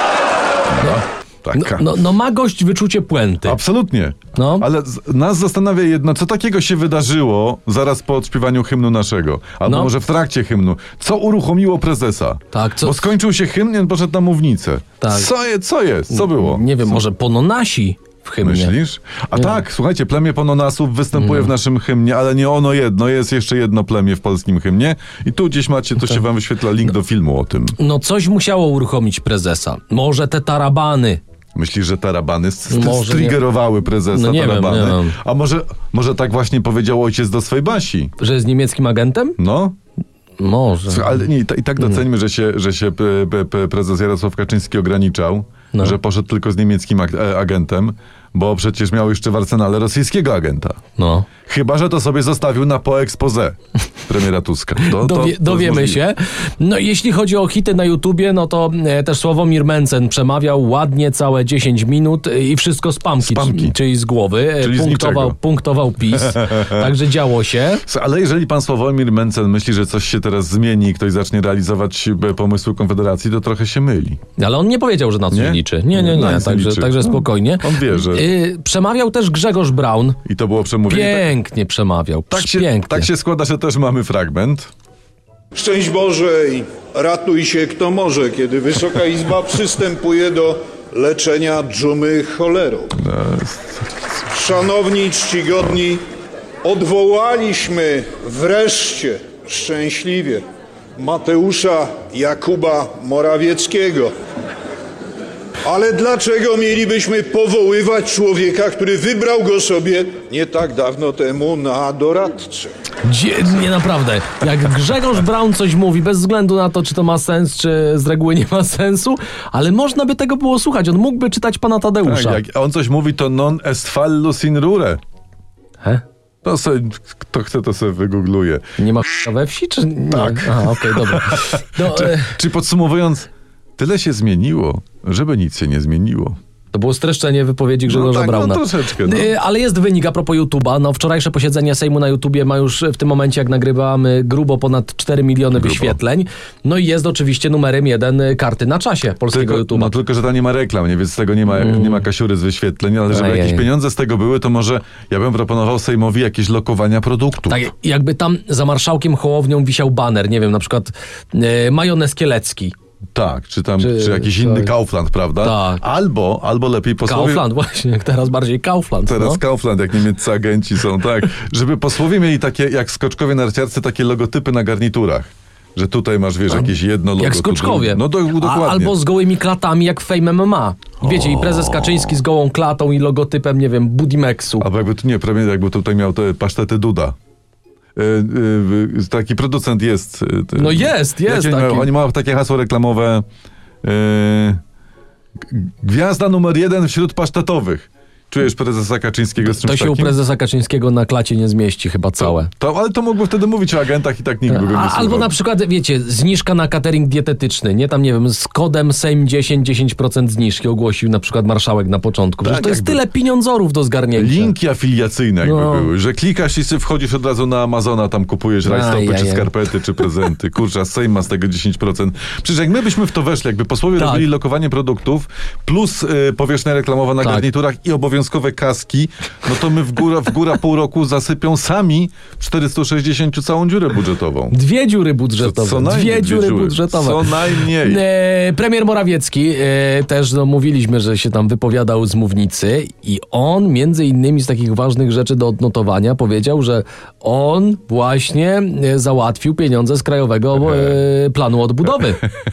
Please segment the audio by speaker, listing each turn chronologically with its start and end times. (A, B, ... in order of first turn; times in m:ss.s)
0:00.7-0:02.0 A
0:01.6-0:03.6 B
0:03.4-0:17.0 A
0:04.4-0:04.7 B
0:09.7-0:09.9 B
0:12.5-0:13.1 B
0:15.0-0:15.3 B
0:16.1-0:18.8 B
0:18.4-0:27.8 A
0:19.4-0:19.6 B
0:21.2-0:21.5 B
0:27.8-0:31.2 B
0:31.6-0:38.1 A
0:32.7-0:33.5 B
0:34.1-0:35.2 B
0:38.2-0:39.4 B
0:39.4-0:39.8 A
0:40.4-0:41.3 B
0:40.9-0:50.8 A
0:51.0-0:51.3 B
0:51.5-0:53.6 A
0:54.1-0:56.0 A
0:54.8-1:07.8 B
1:03.2-1:03.8 A
1:04.6-1:05.4 A
1:06.1-1:06.9 A
1:07.8-1:14.2 A
1:14.4-1:20.2 B
1:15.3-1:18.3 A
1:20.2-1:21.3 A
1:20.9-1:23.1 B
1:22.3-1:24.7 A
1:25.6-1:33.0 C
1:33.0-1:34.0 A
1:34.3-1:36.0 C
1:36.6-1:40.4 C
1:41.0-1:44.1 C
1:45.6-1:52.7 C
1:53.0-2:02.4 B
2:02.0-2:05.0 A
2:06.4-2:08.6 A
2:08.8-2:12.4 B
2:10.1-2:16.4 A
2:16.7-2:30.0 B
2:17.9-2:19.3 A
2:25.5-2:26.0 A
2:29.3-2:37.7 A
2:31.5-2:32.1 B
2:33.1-2:33.7 B
2:37.5-2:42.7 B
2:43.2-2:47.5 A
2:43.8-2:44.7 B
2:45.4-2:45.8 B
2:47.1-2:49.4 B
2:49.1-2:59.0 A
2:56.5-3:04.7 B
3:01.0-3:02.2 A
3:04.6-3:07.2 A
3:08.0-3:13.2 A
3:10.6-3:11.9 B
3:13.8-3:14.6 A
3:15.5-3:20.2 A
3:19.4-3:22.5 B
3:22.2-3:25.3 A
3:24.5-3:34.6 B
3:32.4-3:33.0 A
3:34.2-3:54.6 A
3:35.4-3:35.9 B
3:38.6-3:40.1 B
3:44.0-3:44.3 B
3:47.2-3:47.5 B
3:54.5-4:12.3 B
3:55.4-3:58.0 A
4:10.7-4:10.9 A